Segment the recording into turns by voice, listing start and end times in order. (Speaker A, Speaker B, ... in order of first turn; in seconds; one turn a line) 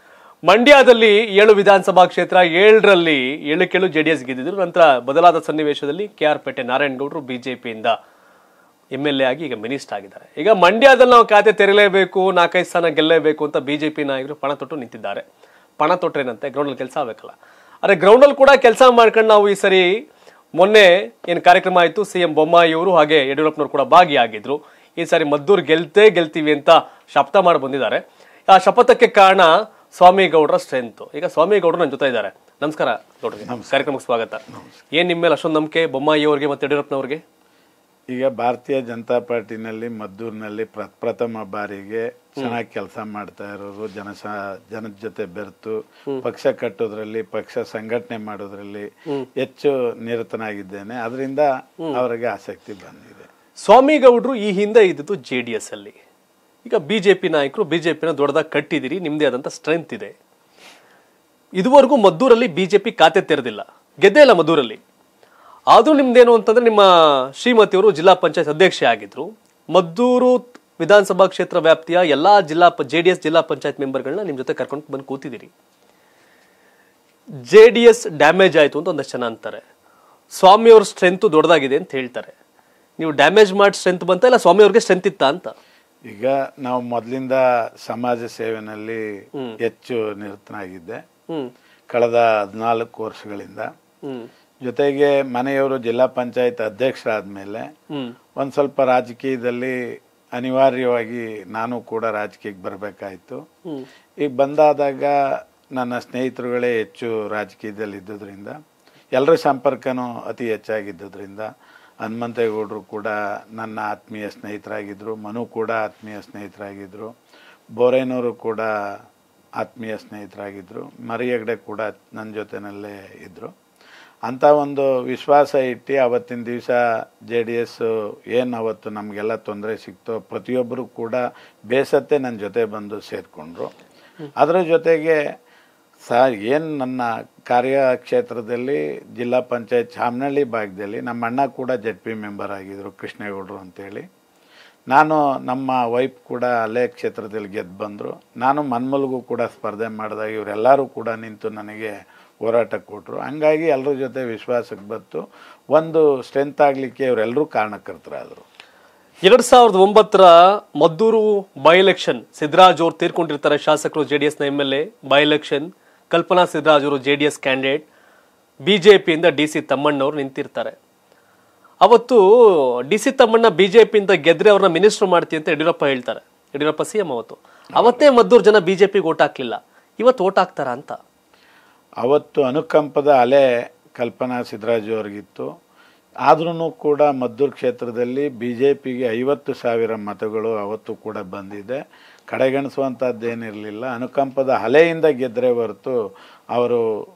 Speaker A: 0.5-7.9
Speaker A: 8.9-15.2
Speaker A: 15.8-19.9
Speaker A: 20.6-34.4
Speaker B: 33.4-33.9
Speaker A: 34.9-37.2
Speaker B: 38.1-48.9
Speaker B: 49.4-53.3
Speaker A: 53.6-56.0
Speaker A: 56.6-60.1
Speaker A: 61.6-64.8
Speaker A: 65.7-75.5
Speaker A: 77.4-79.6
Speaker A: 80.3-82.3
Speaker A: 83.0-85.5
Speaker B: 86.1-89.0
Speaker B: 89.6-91.0
Speaker B: 91.9-93.7
Speaker B: 94.6-97.7
Speaker B: 98.4-99.8
Speaker B: 100.3-103.4
Speaker B: 104.2-105.1
Speaker B: 105.8-108.5
Speaker B: 109.1-111.5
Speaker B: 112.0-117.1
Speaker B: 117.8-118.7
Speaker B: 119.6-123.5
Speaker B: 124.2-133.7
Speaker B: 134.4-135.2
Speaker B: 136.1-144.0
Speaker B: 144.9-151.9
Speaker B: 152.4-155.2
Speaker B: 155.7-158.4
Speaker A: 159.2-167.8
Speaker A: 168.6-170.8
Speaker A: 171.8-172.2
Speaker A: 172.9-180.9
Speaker B: 182.0-185.5
Speaker B: 186.3-191.8
Speaker B: 192.3-195.9
Speaker B: 196.5-196.8